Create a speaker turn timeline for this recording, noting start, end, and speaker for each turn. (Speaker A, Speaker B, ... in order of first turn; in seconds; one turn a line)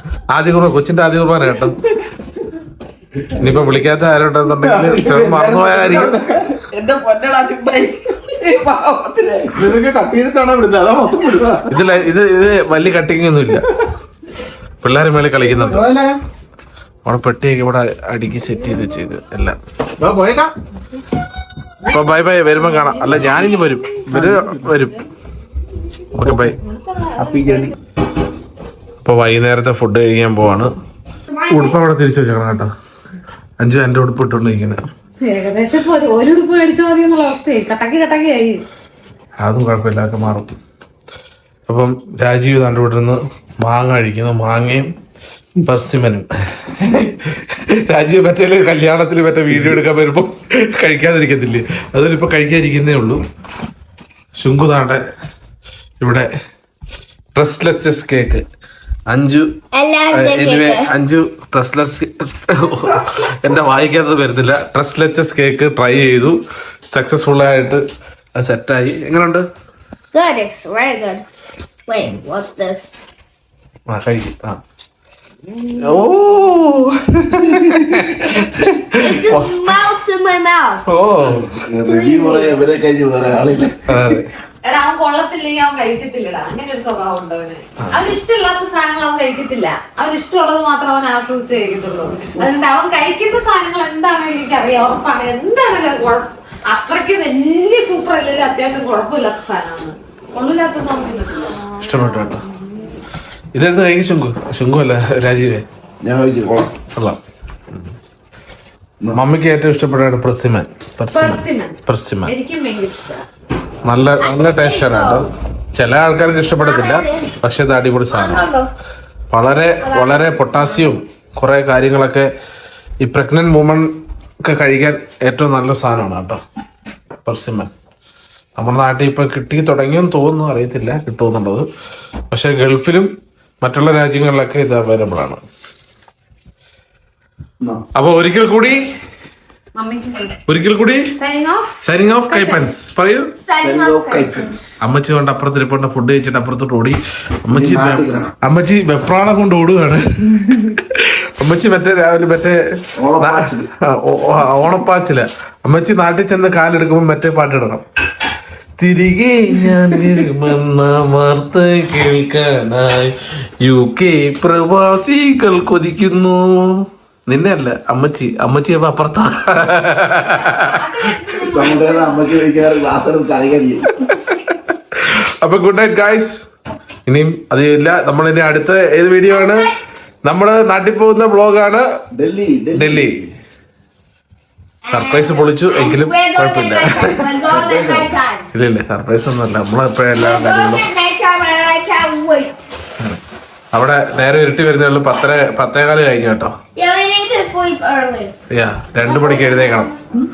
Speaker A: 0.3-1.8
Speaker A: 3.4-6.1
Speaker B: 4.6-6.6
Speaker C: 6.7-9.7
Speaker B: 9.5-11.7
Speaker A: 11.7-13.7
Speaker A: 14.8-15.9
Speaker B: 15.5-16.2
Speaker A: 17.0-19.6
Speaker B: 20.0-20.5
Speaker A: 21.8-25.0
Speaker D: 22.9-23.7
Speaker B: 24.1-24.8
Speaker A: 26.1-26.6
Speaker B: 26.2-26.5
Speaker D: 26.6-27.7
Speaker B: 27.2-27.7
Speaker A: 29.0-30.7
Speaker A: 31.5-32.7
Speaker A: 33.6-34.8
Speaker D: 35.2-38.6
Speaker A: 39.4-40.5
Speaker A: 41.7-44.9
Speaker A: 45.6-53.2
Speaker A: 54.4-55.0
Speaker A: 56.0-56.3
Speaker A: 57.4-58.4
Speaker A: 59.1-59.5
Speaker E: 59.7-60.9
Speaker A: 60.1-66.4
Speaker A: 66.9-67.8
Speaker A: 68.3-69.5
Speaker E: 70.1-71.2
Speaker E: 71.9-72.9
Speaker A: 73.9-74.6
Speaker A: 75.8-79.8
Speaker B: 77.6-78.0
Speaker E: 79.0-80.8
Speaker A: 80.9-81.5
Speaker B: 81.3-84.2
Speaker E: 81.8-82.6
Speaker A: 83.9-84.3
Speaker D: 84.6-102.9
Speaker A: 87.8-88.1
Speaker A: 101.8-102.4
Speaker A: 103.5-105.6
Speaker B: 106.0-106.7
Speaker A: 109.1-112.3
Speaker D: 111.1-113.2
Speaker A: 113.8-118.5
Speaker E: 114.2-115.2
Speaker E: 116.6-117.3
Speaker E: 118.1-118.7
Speaker A: 119.3-122.3
Speaker A: 123.0-123.9
Speaker A: 124.4-126.4
Speaker A: 127.2-127.7
Speaker A: 128.6-131.6
Speaker A: 132.3-135.4
Speaker A: 137.9-138.8
Speaker D: 139.7-140.4
Speaker A: 140.5-141.0
Speaker D: 141.2-141.7
Speaker A: 141.8-143.3
Speaker D: 142.3-142.6
Speaker E: 143.4-144.6
Speaker B: 143.6-144.6
Speaker A: 144.8-152.6
Speaker B: 147.5-148.3
Speaker B: 153.0-153.7
Speaker A: 153.2-157.8
Speaker A: 158.8-170.8
Speaker D: 170.3-172.3
Speaker B: 171.5-173.9
Speaker A: 174.1-176.4
Speaker A: 177.1-179.7
Speaker E: 179.3-179.7
Speaker A: 180.2-181.8
Speaker B: 182.1-183.2
Speaker A: 182.7-183.2
Speaker E: 184.8-188.5
Speaker A: 184.9-187.4
Speaker B: 187.4-188.1
Speaker A: 188.5-190.9
Speaker E: 190.2-192.6
Speaker A: 193.7-196.5
Speaker E: 196.8-198.3
Speaker A: 198.5-199.9
Speaker E: 199.0-199.9